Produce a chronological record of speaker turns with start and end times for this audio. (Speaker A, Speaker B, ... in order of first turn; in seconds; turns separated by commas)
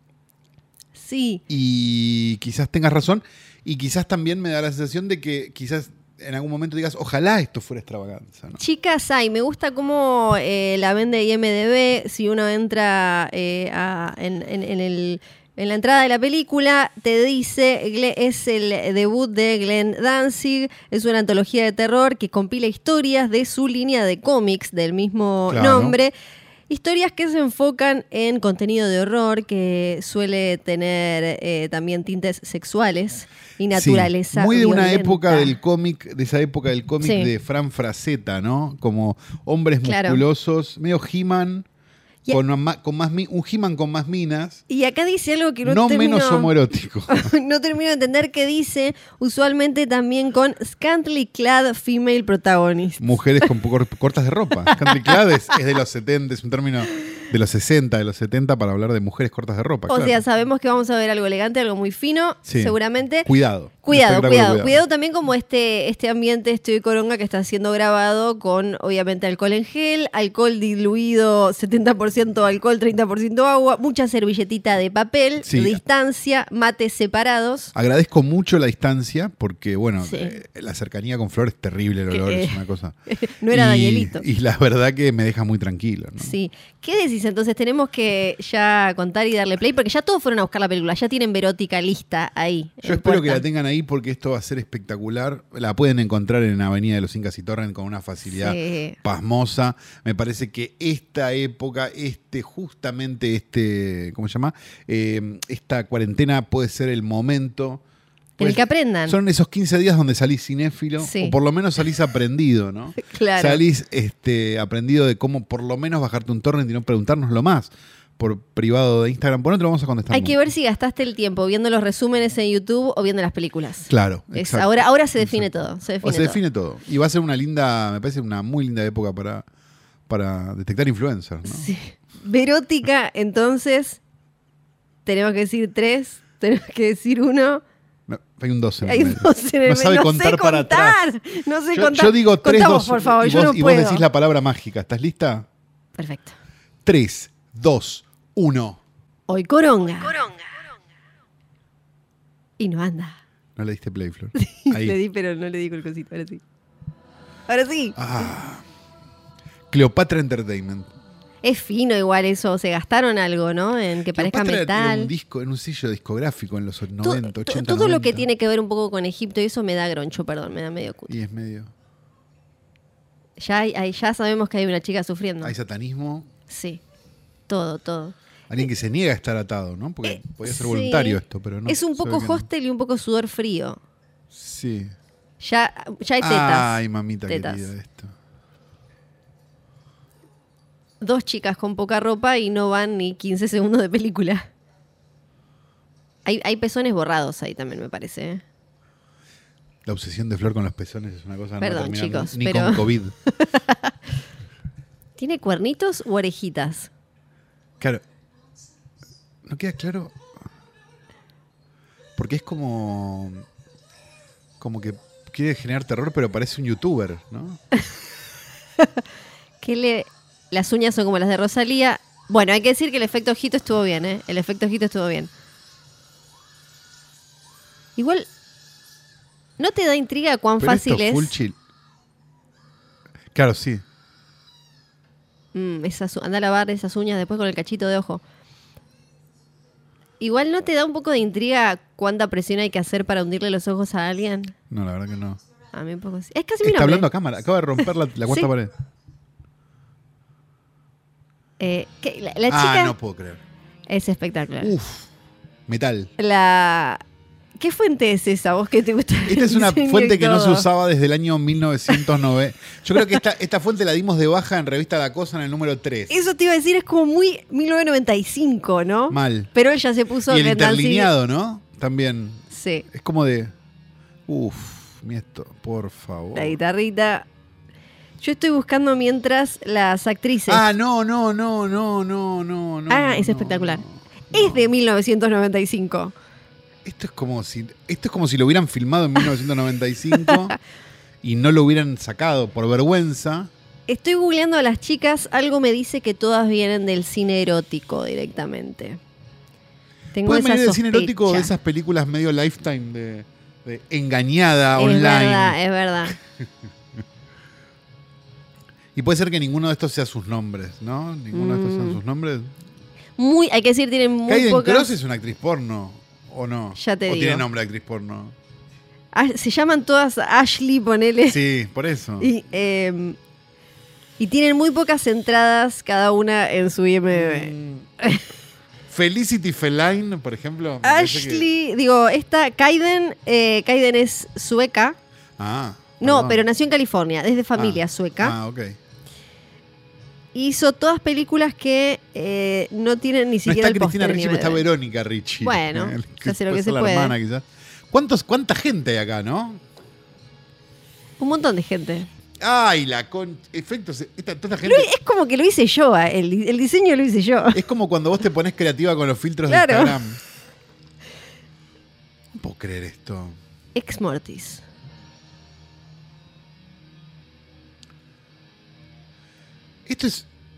Speaker A: 0.9-1.4, Speaker B: 1.5-8.6, Speaker A: 8.6-26.1, Speaker B: 25.5-26.0, Speaker A: 26.7-35.5, Speaker B: 33.7-41.7, Speaker A: 37.0-37.3, Speaker A: 39.8-40.2, Speaker B: 42.3-44.6, Speaker A: 44.7-46.5, Speaker B: 45.6-47.3, Speaker A: 47.1-53.5, Speaker B: 53.0-60.2, Speaker A: 54.7-55.2, Speaker A: 59.9-63.3, Speaker B: 62.5-64.8, Speaker A: 63.8-77.7, Speaker B: 75.4-75.8, Speaker B: 77.7-82.9, Speaker A: 80.0-80.4, Speaker A: 82.1-84.2, Speaker B: 83.5-86.4, Speaker A: 86.2-93.4, Speaker B: 92.8-107.8, Speaker A: 98.3-99.0, Speaker A: 108.4-109.2, Speaker B: 108.4-120.4, Speaker A: 111.0-111.4, Speaker A: 113.0-113.6, Speaker A: 120.1-126.4, Speaker B: 123.9-125.5, Speaker B: 126.0-129.4, Speaker B: 130.1-131.7, Speaker A: 131.4-134.0, Speaker A: 135.1-137.6, Speaker B: 138.1-141.0, Speaker A: 138.8-144.0, Speaker B: 141.7-145.5, Speaker A: 146.0-146.4, Speaker B: 146.8-148.8, Speaker A: 149.3-150.5, Speaker A: 152.6-153.2, Speaker B: 153.6-155.0, Speaker A: 154.4-156.4, Speaker A: 157.5-158.3, Speaker B: 158.0-158.6, Speaker B: 159.7-160.9, Speaker A: 161.4-165.1, Speaker B: 164.1-168.3, Speaker A: 167.0-171.1, Speaker B: 171.1-171.7, Speaker A: 173.4-175.6, Speaker B: 175.4-176.3, Speaker A: 176.5-176.8, Speaker A: 177.5-178.2, Speaker B: 178.5-182.5, Speaker A: 180.0-183.8, Speaker B: 184.3-184.9, Speaker A: 185.4-187.7, Speaker B: 186.2-188.1, Speaker A: 191.0-194.5, Speaker A: 196.2-198.4, Speaker B: 199.9-203.1, Speaker A: 201.6-204.0, Speaker A: 205.2-206.9, Speaker B: 209.5-210.2, Speaker B: 212.2-213.5, Speaker B: 214.6-217.6, Speaker A: 219.6-225.3, Speaker A: 228.0-228.3, Speaker A: 229.6-231.3, Speaker B: 230.6-231.6, Speaker B: 233.3-233.8, Speaker A: 235.5-238.2, Speaker A: 240.2-244.6, Speaker B: 244.7-245.4, Speaker A: 245.7-247.1, Speaker B: 246.6-248.7, Speaker A: 247.8-248.5, Speaker A: 251.6-253.0, Speaker B: 252.5-253.4, Speaker A: 253.9-254.8, Speaker B: 254.6-255.1, Speaker B: 255.7-256.1, Speaker A: 256.2-257.0, Speaker A: 257.6-260.7, Speaker B: 259.3-266.1, Speaker A: 266.1-271.1, Speaker B: 269.1-269.5, Speaker B: 270.3-273.5, Speaker A: 272.5-272.9, Speaker B: 274.3-276.6, Speaker A: 276.4-277.3, Speaker A: 278.2-280.6, Speaker B: 280.5-284.7, Speaker A: 282.9-286.1, Speaker B: 286.9-290.6, Speaker A: 290.3-290.5, Speaker B: 291.2-293.5, Speaker A: 293.9-299.0, Speaker A: 300.1-301.5, Speaker B: 300.1-305.6, Speaker A: 304.8-306.2, Speaker B: 308.9-312.5, Speaker A: 311.3-312.0, Speaker A: 313.2-314.9, Speaker B: 314.3-318.4, Speaker A: 316.8-317.5, Speaker A: 319.1-321.4, Speaker B: 321.3-322.3, Speaker A: 322.2-323.2, Speaker A: 324.2-328.2, Speaker B: 327.1-327.9, Speaker B: 328.9-331.5, Speaker A: 330.8-335.0, Speaker B: 335.4-336.4, Speaker A: 336.0-338.4, Speaker B: 337.6-338.8, Speaker A: 340.3-344.6, Speaker B: 343.5-349.6, Speaker A: 345.4-347.2, Speaker A: 351.2-352.1, Speaker B: 352.4-354.9, Speaker A: 354.6-357.6, Speaker B: 357.5-360.2, Speaker A: 359.5-360.0, Speaker B: 362.4-363.4, Speaker A: 363.8-364.6, Speaker B: 369.9-370.3